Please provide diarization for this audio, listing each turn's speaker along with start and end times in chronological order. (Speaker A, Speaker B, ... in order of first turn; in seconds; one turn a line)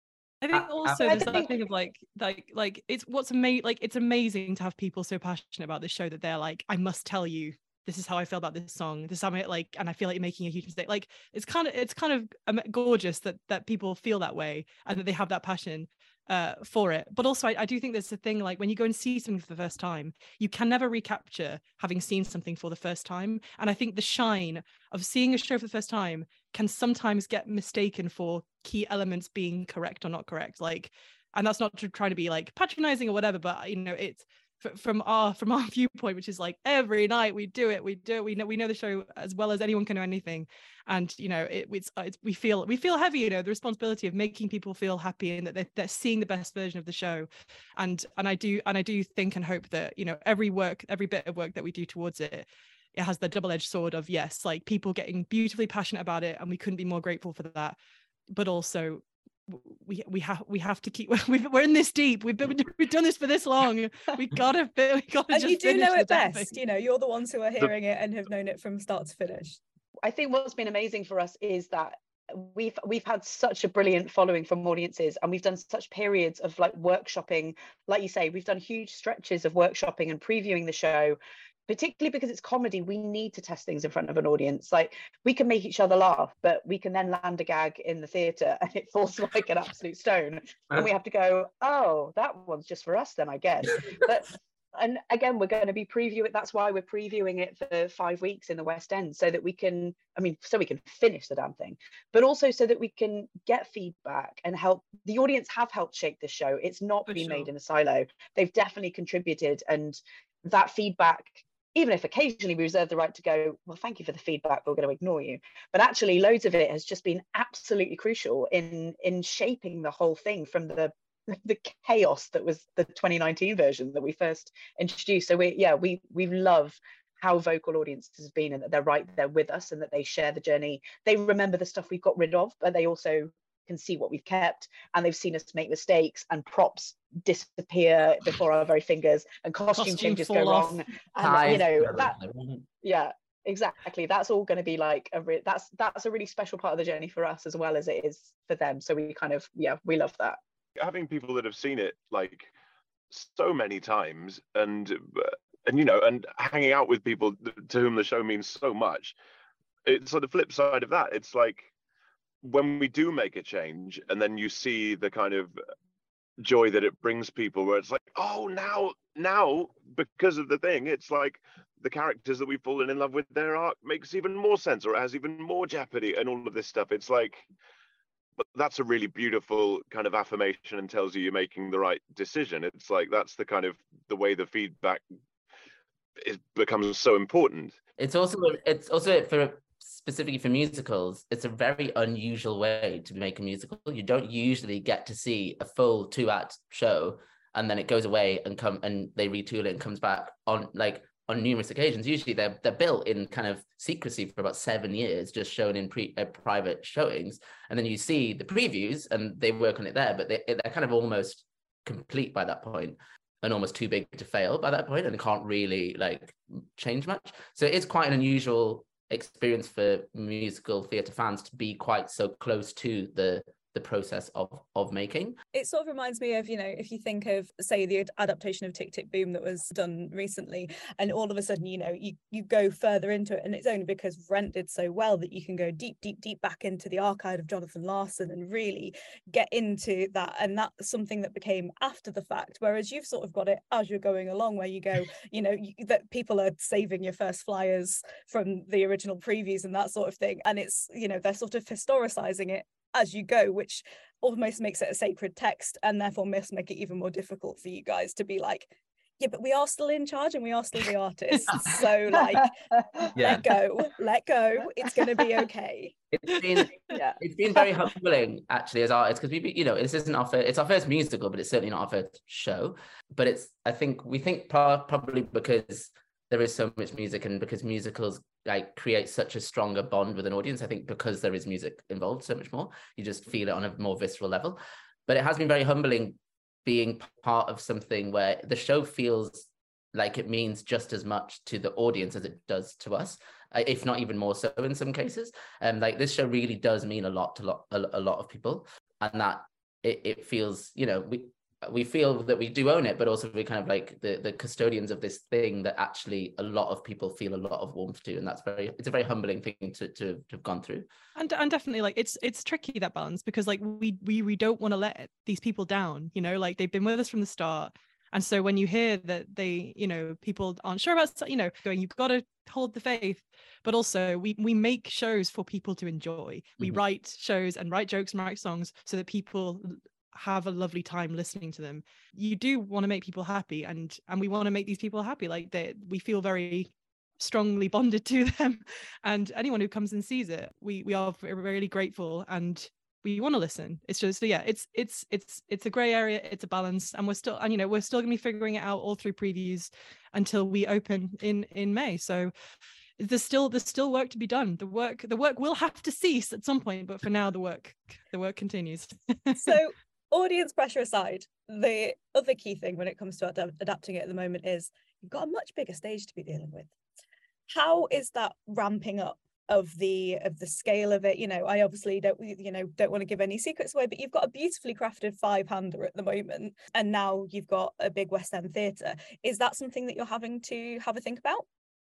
Speaker A: 0.4-57.8
Speaker B: 0.5-1.4
Speaker C: 1.0-1.6
Speaker A: 58.3-66.5
Speaker D: 65.3-69.6
Speaker C: 70.0-142.2
Speaker A: 107.1-107.5
Speaker A: 139.8-140.8
Speaker B: 141.2-142.7
Speaker C: 142.8-150.4
Speaker E: 150.8-152.5
Speaker E: 153.1-159.2
Speaker E: 159.8-161.7
Speaker E: 162.4-165.5
Speaker E: 166.4-177.4
Speaker E: 178.4-185.0
Speaker E: 186.2-187.8
Speaker B: 188.0-225.4
Speaker D: 225.5-262.5
Speaker C: 262.8-263.1
Speaker B: 263.1-263.5
Speaker D: 263.2-265.9
Speaker B: 266.1-310.9
Speaker C: 266.9-267.2
Speaker A: 311.2-352.3
Speaker A: 353.0-359.6
Speaker D: 359.4-366.7
Speaker D: 367.5-381.4